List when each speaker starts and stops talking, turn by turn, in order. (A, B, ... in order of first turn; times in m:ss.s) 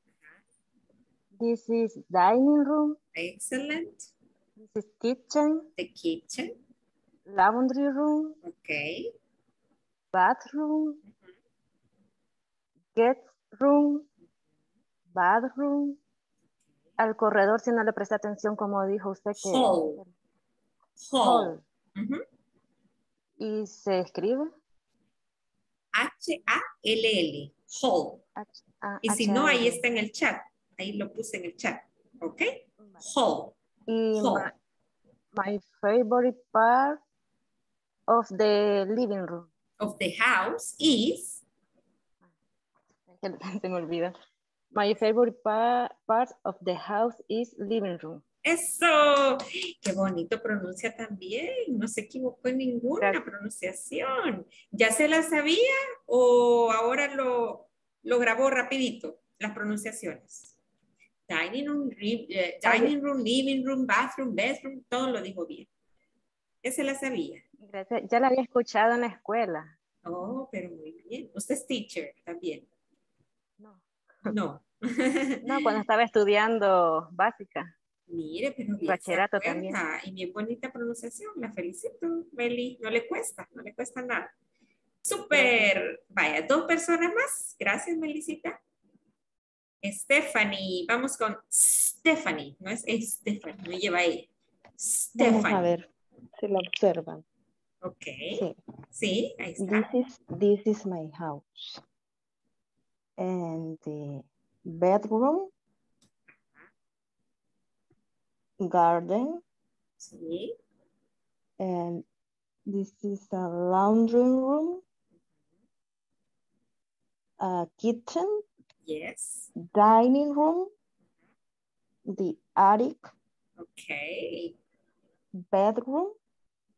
0:01.4-0:03.0 A
0:03.1-0:04.0 B
0:04.6-0:05.6 A
0:05.8-0:06.5 B
0:07.3-0:08.4 A
0:08.4-0:09.1 B
0:10.1-0:11.0 A
0:12.9-0:14.1 A
0:15.1-0:16.0 A
0:17.0-0:20.1 A
0:19.3-0:20.0 B
0:21.0-0:22.2 B
0:21.2-0:21.6 A
0:23.4-0:24.5 A
0:26.0-0:28.2 B
0:28.4-0:29.8 A
0:29.0-0:33.5 B
0:33.9-0:34.5 A
0:34.2-0:34.5 B
0:35.3-0:37.0 A
0:38.1-0:39.5 A
0:39.8-0:41.4 B
0:43.1-0:44.1 A
0:44.7-0:48.2 A
0:48.4-1:00.5 B
1:01.3-1:05.7 B
1:02.6-1:02.9 A
1:06.6-1:07.4 B
1:07.6-1:09.7 A
1:10.0-1:12.7 B
1:13.6-1:14.3 A
1:14.3-1:15.4 B
1:15.4-1:17.7 A
1:18.1-1:24.3 B
1:18.8-1:19.8 A
1:25.0-1:28.6 B
1:25.3-1:25.7 A
1:29.8-1:35.7 B
1:35.2-1:37.2 C
1:37.8-1:38.4 B
1:38.9-1:39.9 B
1:39.6-1:41.8 C
1:43.2-1:45.5 C
1:48.6-1:49.4 C
1:50.0-1:50.5 B
1:51.6-1:52.0 C
1:52.7-1:54.8 C
1:57.4-1:58.4 C
1:58.8-1:59.5 B
1:59.6-2:00.7 C
2:02.1-2:03.1 C
2:03.6-2:04.5 B
2:05.4-2:06.2 C